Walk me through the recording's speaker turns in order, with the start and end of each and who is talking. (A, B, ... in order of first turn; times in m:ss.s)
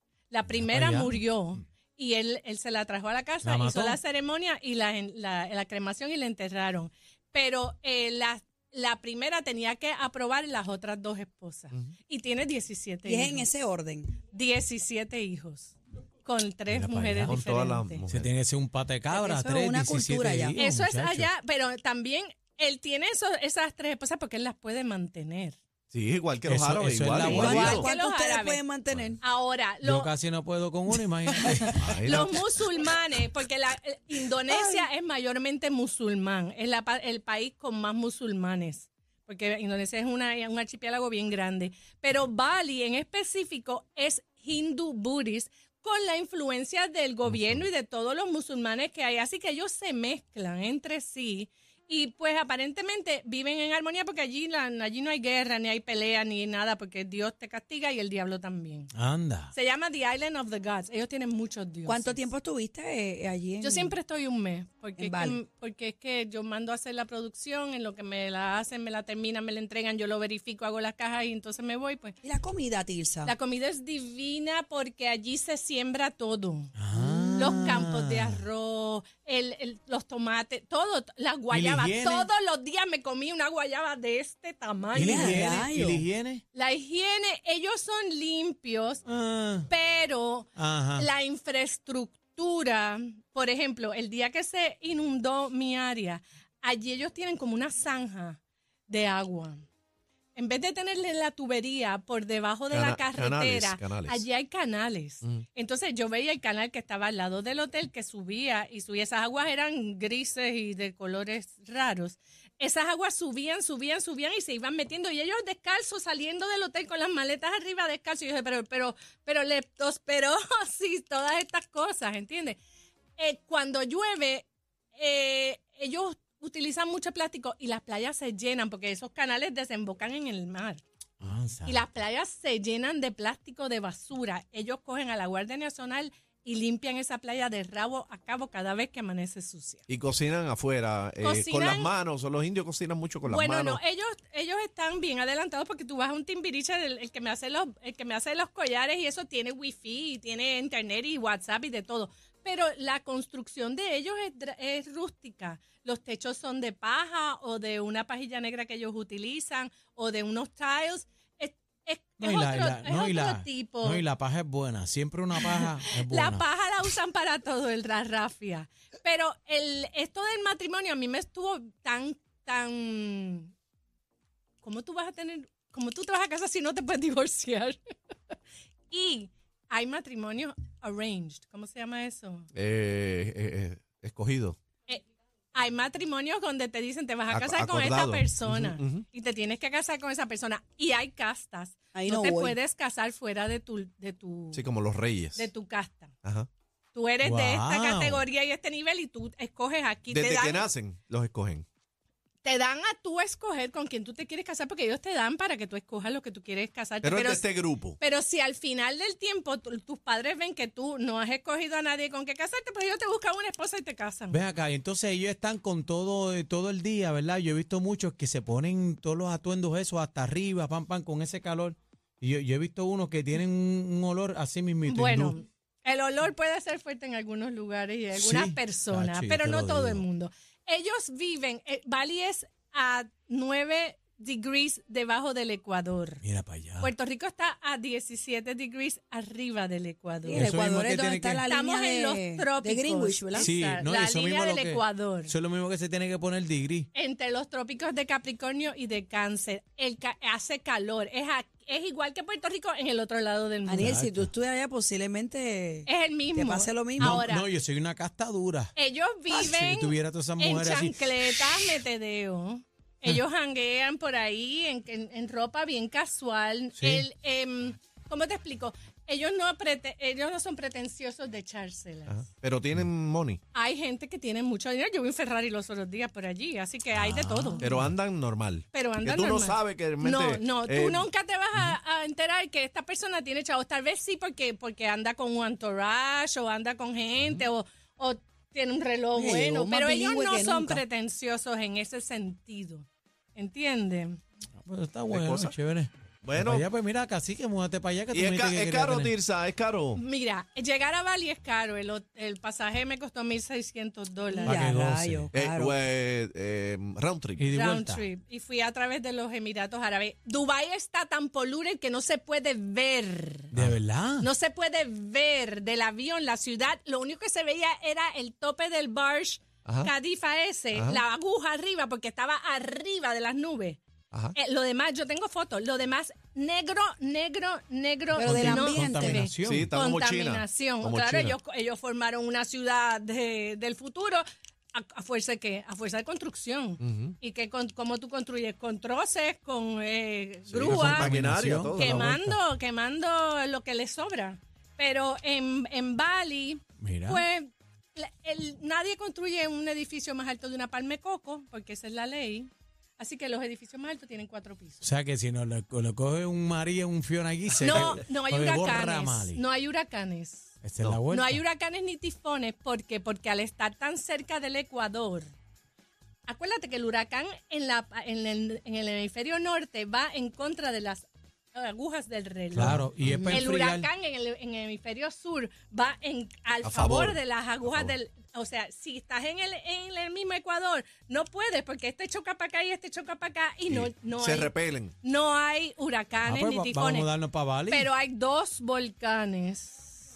0:00.3-0:13.5 A
0:00.5-0:01.2 B
0:03.4-0:04.0 B
0:13.0-0:14.2 C
0:14.3-0:18.0 A
0:16.7-0:17.4 B
0:17.3-0:18.3 D
0:18.1-0:21.3 B
0:19.1-0:20.6 C
0:20.6-0:25.6 A
0:25.9-0:27.9 D
0:26.4-0:27.8 B
0:27.2-0:29.2 C
0:27.4-0:28.6 A
0:28.9-0:29.2 D
0:29.2-0:30.1 A
0:29.8-0:31.8 B
0:31.8-0:32.4 D
0:32.0-0:58.9 A
0:34.5-0:34.9 C
0:47.3-0:47.7 D
0:58.9-0:59.5 B
0:59.5-1:02.2 A
1:01.9-1:04.0 C
1:03.6-1:12.2 A
1:05.0-1:05.4 C
1:12.2-1:13.4 C
1:13.2-1:16.7 A
1:16.8-1:18.4 B
1:17.0-1:17.8 C
1:17.4-1:25.6 A
1:21.5-1:22.3 B
1:24.9-1:26.4 B
1:25.0-1:26.0 C
1:26.5-1:29.0 A
1:29.1-1:29.7 B
1:29.7-1:39.6 A
1:30.6-1:31.1 B
1:40.4-2:02.6 A
1:42.7-1:44.3 D
2:03.2-2:10.8 A
2:11.2-2:11.9 B
2:11.6-2:19.8 A
2:19.9-2:23.8 D
2:21.2-2:21.9 A
2:23.3-2:44.0 A
2:42.2-2:46.4 B
2:45.4-2:53.5 A
2:54.6-2:57.8 A
2:58.9-3:02.5 A
3:02.5-3:04.6 D
3:04.9-3:14.6 A
3:07.3-3:09.0 D
3:11.9-3:12.6 C
3:14.5-3:15.5 D
3:15.4-3:16.1 A
3:16.9-3:20.6 A
3:17.2-3:18.3 B
3:20.1-3:21.6 D
3:22.4-3:27.4 A
3:27.0-3:28.0 D
3:28.0-3:34.4 A
3:34.3-3:45.4 B
3:44.9-3:56.2 A
3:48.1-3:50.0 B
3:56.2-3:56.9 B
3:56.8-4:00.5 A
4:00.2-4:03.5 C
4:00.3-4:01.5 B
4:01.5-4:05.4 A
4:03.4-4:06.9 B
4:06.9-4:14.0 A
4:13.6-4:17.2 C
4:13.8-4:14.3 B
4:15.9-4:17.5 A
4:17.0-4:18.7 B
4:18.8-4:32.2 A
4:19.4-4:21.0 B
4:26.8-4:27.1 B
4:32.1-4:33.4 D
4:33.5-4:37.7 A
4:36.9-4:37.9 B
4:37.6-4:41.1 D
4:38.7-4:54.2 A
4:47.2-4:47.5 D
4:49.2-4:50.8 C
4:54.6-4:59.2 B
4:55.1-4:55.6 D
4:56.2-4:56.7 D
4:58.1-5:00.0 D
5:00.0-5:04.6 A
5:04.4-5:05.8 C
5:04.4-5:05.3 B
5:05.3-5:07.5 D
5:07.4-5:08.0 B
5:07.5-5:13.5 A
5:13.5-5:14.3 B
5:14.2-5:23.8 A
5:19.6-5:19.9 D
5:20.7-5:21.0 D
5:24.4-5:41.1 A
5:28.1-5:29.8 B
5:28.2-5:29.3 C
5:29.4-5:31.4 D
5:36.8-5:37.2 D
5:40.5-5:42.1 D
5:40.6-5:42.4 B
5:41.8-5:54.8 A
5:46.8-5:47.2 B
5:54.8-5:59.4 B
5:57.6-6:00.5 A
6:00.6-6:01.4 B
6:01.1-6:05.3 A
6:06.3-6:27.1 A
6:12.5-6:13.9 B
6:12.6-6:13.4 D
6:16.6-6:18.0 D
6:23.7-6:24.9 D
6:26.2-6:27.9 B
6:27.7-6:30.0 A